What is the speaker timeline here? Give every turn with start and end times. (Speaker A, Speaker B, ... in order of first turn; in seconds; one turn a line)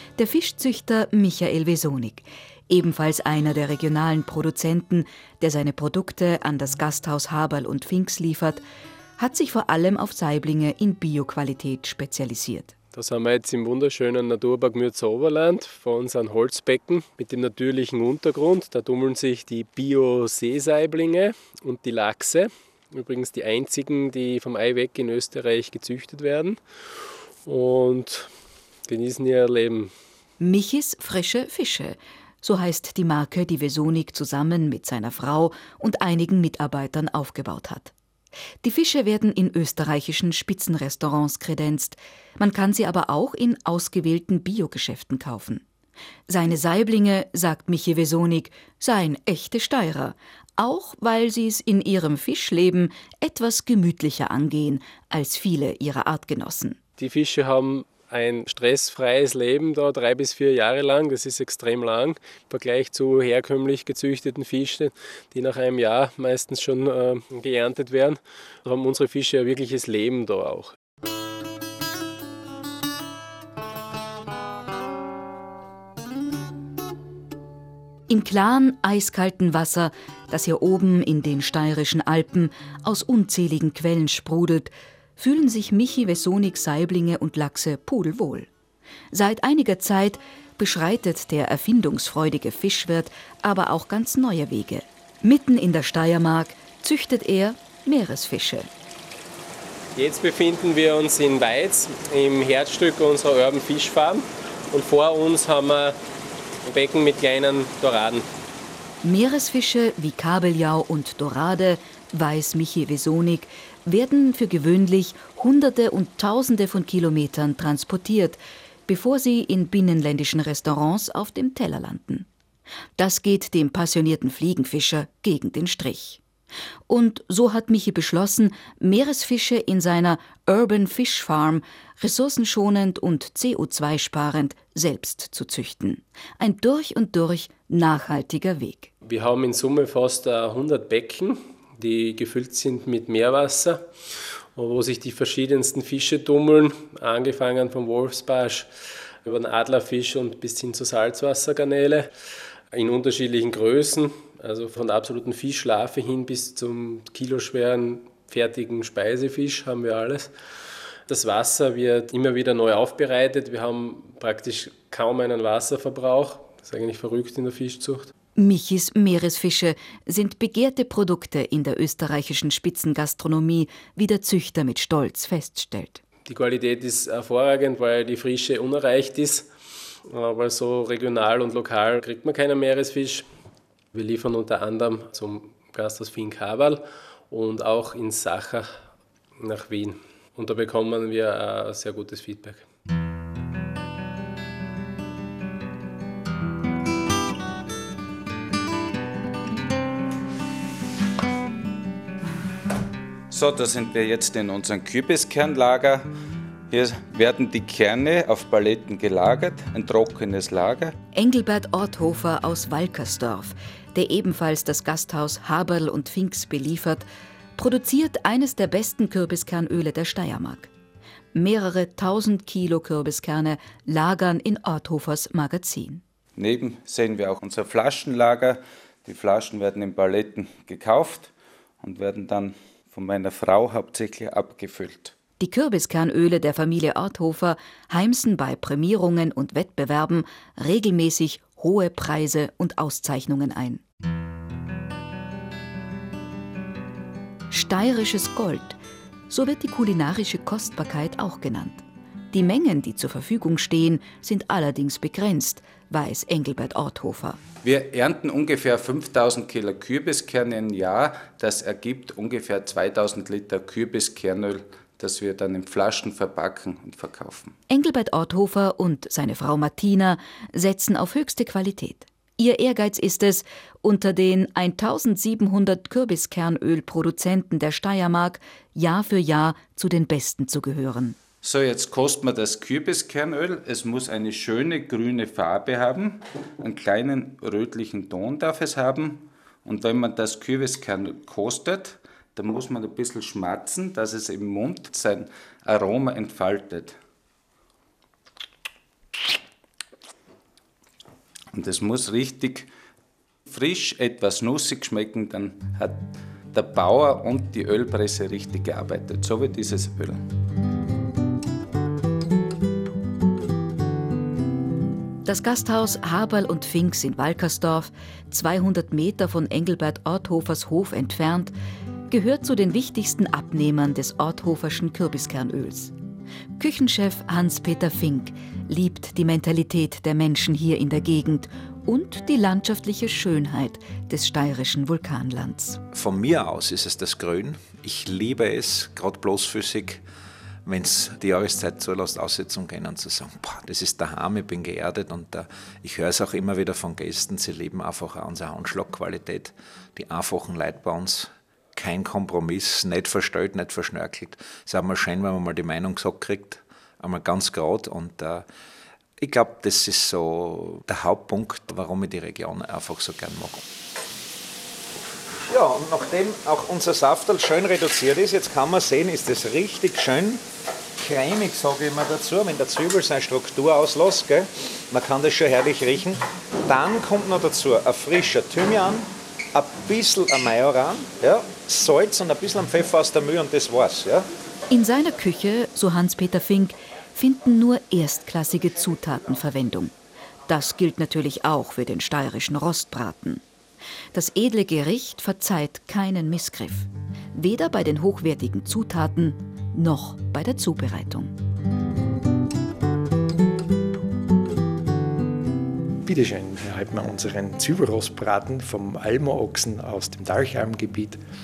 Speaker A: 0.2-8.6
Speaker A: 9.2-12.7
Speaker B: 12.9-26.6
Speaker B: 27.4-28.3
Speaker B: 28.9-29.9
Speaker A: 30.4-37.9
Speaker A: 38.6-45.6
Speaker A: 46.3-56.8
Speaker B: 57.0-70.7
Speaker A: 78.1-88.5
Speaker A: 89.1-98.7
Speaker B: 100.0-106.0
Speaker B: 106.6-108.2
Speaker A: 109.0-122.3
Speaker A: 123.0-126.2
Speaker A: 126.9-138.9
Speaker B: 139.0-143.8
Speaker B: 144.5-148.7
Speaker B: 149.2-152.1
Speaker B: 152.7-160.3
Speaker B: 161.1-168.1
Speaker A: 168.4-176.0
Speaker B: 176.3-179.5
Speaker B: 180.1-183.2
Speaker B: 183.9-188.7
Speaker B: 189.4-192.6
Speaker C: 203.3-206.1
Speaker C: 206.7-210.9
Speaker A: 211.1-217.1
Speaker A: 217.6-220.7
Speaker A: 221.3-226.0
Speaker C: 226.4-235.1
Speaker A: 235.4-243.8
Speaker A: 247.5-248.8
Speaker A: 249.3-257.4
Speaker C: 257.6-267.5
Speaker A: 267.7-281.2
Speaker C: 281.4-296.9
Speaker C: 301.5-302.7
Speaker C: 303.5-310.2
Speaker A: 315.2-321.5
Speaker A: 322.1-325.9
Speaker A: 326.6-335.8
Speaker D: 335.9-340.0
Speaker D: 340.6-358.4
Speaker D: 359.2-363.6
Speaker D: 365.5-370.4
Speaker D: 371.0-384.2
Speaker A: 384.7-389.9
Speaker A: 390.5-393.4
Speaker A: 394.1-401.3
Speaker E: 406.0-411.2